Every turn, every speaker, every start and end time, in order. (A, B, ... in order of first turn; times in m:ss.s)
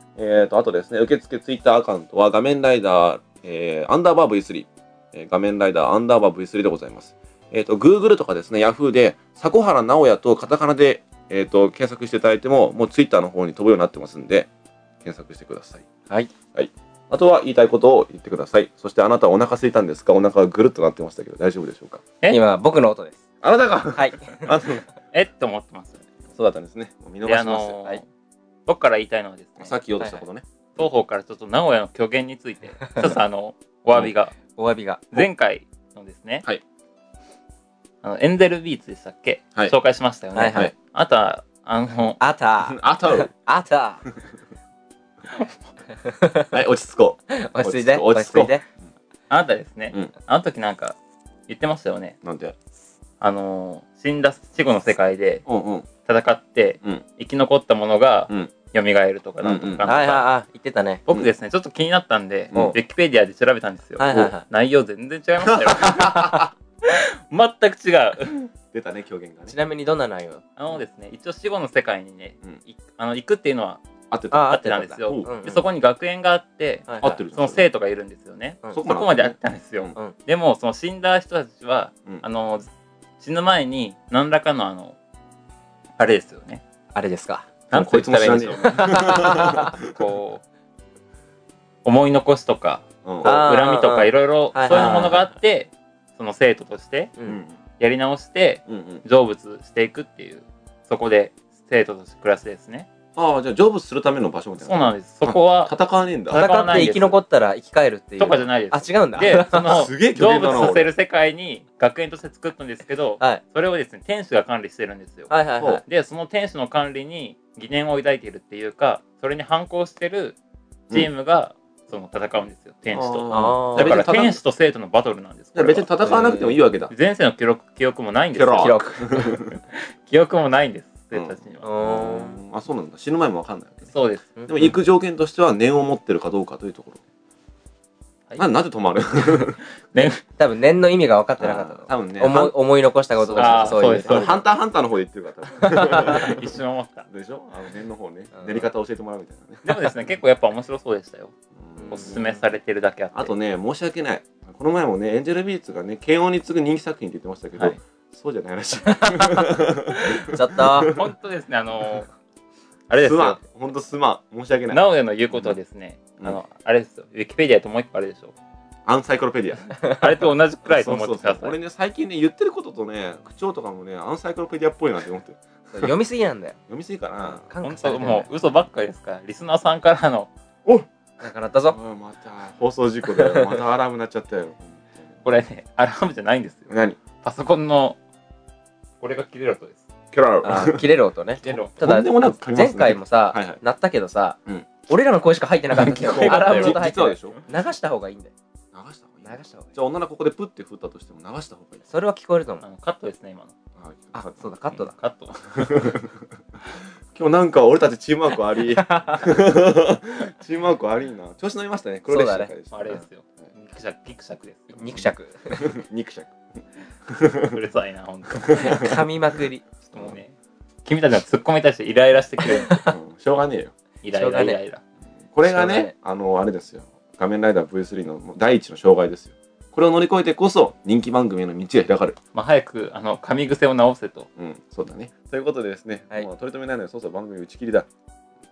0:00.2-0:14.5 A
0:15.0-0:15.9 A
0:16.5-0:22.0 A
0:22.3-0:23.2 B
0:23.4-0:24.8 A
0:24.0-0:24.5 B
0:25.1-0:26.0 C
0:26.3-0:27.9 A
0:27.2-0:28.1 C
0:28.7-0:29.8 C
0:29.6-0:30.8 A
0:30.8-0:34.4 C
0:34.6-0:35.3 B
0:35.1-0:36.4 C
0:38.0-0:42.2 C
0:40.4-0:40.7 B
0:40.5-0:40.7 A
0:42.2-0:44.0 B
0:42.7-0:43.3 A
0:46.0-0:46.5 B
0:46.5-0:48.7 A
0:47.3-0:48.6 B
0:49.3-0:51.0 C
0:51.5-0:52.2 C
0:52.2-0:52.6 A
0:53.2-0:55.5 C
0:55.5-0:55.9 A
0:56.0-1:00.3 C
0:59.4-0:59.9 A
0:59.8-1:01.0 B
1:01.1-1:08.5 C
1:02.5-1:02.8 A
1:04.0-1:04.4 B
1:05.5-1:06.5 A
1:08.7-1:09.6 A
1:09.5-1:10.4 B
1:10.6-1:13.8 C
1:14.1-1:15.3 A
1:14.3-1:15.6 B
1:14.4-1:22.7 C
1:16.9-1:17.2 B
1:17.0-1:17.7 A
1:18.7-1:20.0 A
1:23.2-1:25.0 C
1:26.0-1:26.6 C
1:26.9-1:29.8 B
1:27.7-1:28.8 C
1:27.7-1:29.9 A
1:29.8-1:30.4 C
1:31.8-1:37.2 C
1:33.0-1:33.4 A
1:33.2-1:35.2 B
1:34.7-1:35.3 A
1:37.3-1:37.6 A
1:37.8-1:42.9 C
1:38.7-1:39.0 A
1:43.2-1:47.0 A
1:44.6-1:45.8 C
1:46.3-1:47.2 C
1:46.3-1:49.8 B
1:48.2-2:00.4 C
1:49.2-1:50.9 A
1:55.3-1:55.8 B
2:00.9-2:06.3 C
2:02.9-2:04.3 A
2:03.3-2:04.3 B
2:05.6-2:06.9 A
2:06.0-2:06.6 B
2:06.9-2:11.8 C
2:08.3-2:09.5 A
2:08.6-2:09.3 B
2:11.1-2:13.9 A
2:11.6-2:12.4 B
2:13.9-2:14.4 C
2:14.4-2:14.7 B
2:14.5-2:17.0 A
2:18.4-2:19.6 A
2:19.2-2:20.2 C
2:20.4-2:24.4 B
2:21.4-2:22.6 A
2:23.2-2:26.6 A
2:23.4-2:24.4 C
2:25.6-2:26.3 B
2:25.8-2:27.1 C
2:27.1-2:29.9 A
2:28.4-2:28.6 B
2:29.6-2:31.3 C
2:31.6-2:32.5 A
2:31.8-2:32.2 B
2:31.9-2:33.3 C
2:33.1-2:41.0 A
2:38.9-2:41.0 B
2:40.9-2:42.1 C
2:42.9-2:43.4 C
2:43.0-2:45.6 A
2:44.7-2:48.3 C
2:48.9-2:49.7 A
2:49.8-2:51.6 C
2:50.7-2:55.9 A
2:55.7-2:56.6 B
2:56.7-2:57.4 A
2:57.2-2:58.3 B
2:57.6-3:00.3 C
3:01.2-3:01.8 B
3:01.7-3:05.2 A
3:03.2-3:03.5 B
3:05.2-3:06.7 C
3:06.7-3:07.0 A
3:07.2-3:08.0 C
3:09.0-3:09.9 C
3:10.1-3:10.9 A
3:10.4-3:18.3 B
3:11.4-3:11.8 C
3:11.4-3:13.6 A
3:15.7-3:16.8 C
3:16.0-3:17.4 A
3:18.7-3:21.8 A
3:19.2-3:19.7 B
3:21.9-3:22.6 B
3:22.6-3:23.6 C
3:23.8-3:24.5 A
3:24.1-3:24.9 B
3:24.7-3:25.8 C
3:25.5-3:26.2 A
3:27.1-3:33.0 A
3:28.7-3:29.2 B
3:32.1-3:32.5 B
3:32.7-3:34.8 C
3:34.7-3:35.7 B
3:35.5-3:37.6 A
3:37.4-3:39.0 C
3:38.3-3:39.0 A
3:38.6-3:39.6 B
3:39.8-3:40.3 C
3:40.8-3:42.9 C
3:42.6-3:42.9 B
3:42.9-3:43.7 A
3:44.0-3:44.8 C
3:44.1-3:44.6 B
3:45.3-3:52.2 A
3:45.4-3:45.9 B
3:52.4-3:54.3 C
3:54.4-3:57.9 A